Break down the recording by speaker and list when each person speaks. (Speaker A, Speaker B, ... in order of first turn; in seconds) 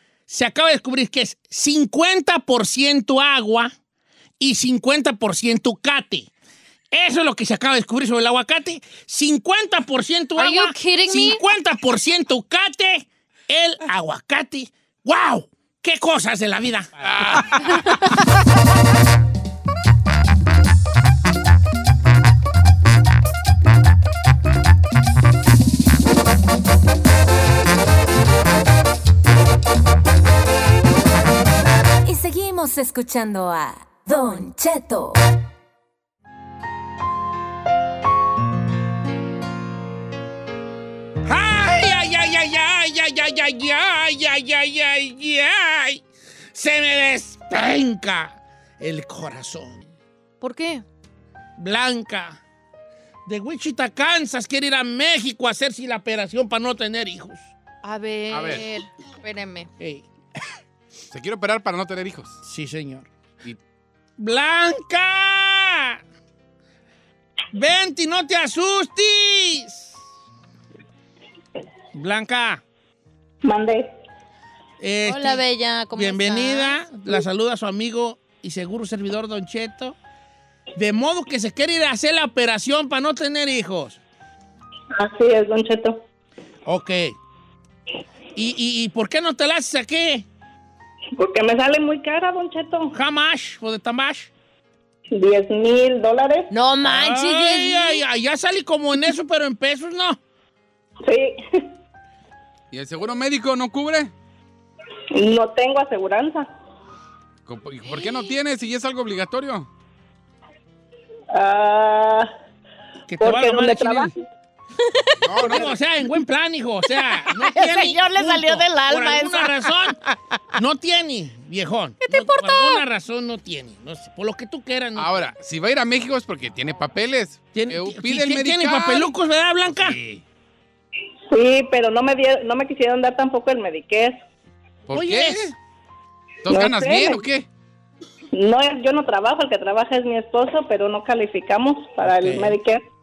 Speaker A: 0.3-3.7, 4.4-6.3, 6.9-17.3, 41.2-49.8, 51.6-52.4, 53.2-57.5, 59.8-60.1, 62.4-63.1, 64.2-66.0, 67.5-69.9, 71.9-72.6, 74.8-80.0, 80.7-84.0, 86.6-87.1, 88.3-90.3, 92.9-94.3, 96.8-100.2, 113.1-114.1, 115.4-120.0, 120.5-125.3, 127.5-130.0, 134.9-135.5, 142.0-142.6
Speaker B: 10.3-11.4, 50.4-50.8, 57.8-59.7, 75.0-76.8, 96.5-98.0, 117.0-119.8, 122.0-122.8
Speaker C: 17.0-17.9, 58.3-58.6, 61.1-62.4, 102.7-104.1, 107.5-109.7, 115.2-115.7, 125.0-129.1, 129.7-130.2, 134.9-135.5, 136.4-137.5
Speaker D: 32.0-35.2
Speaker E: 73.4-73.9, 84.9-86.0, 91.2-92.9, 95.1-96.5, 101.0-101.6, 105.1-106.5, 111.3-112.3, 113.2-114.1, 131.3-134.2, 136.5-137.2, 138.3-142.8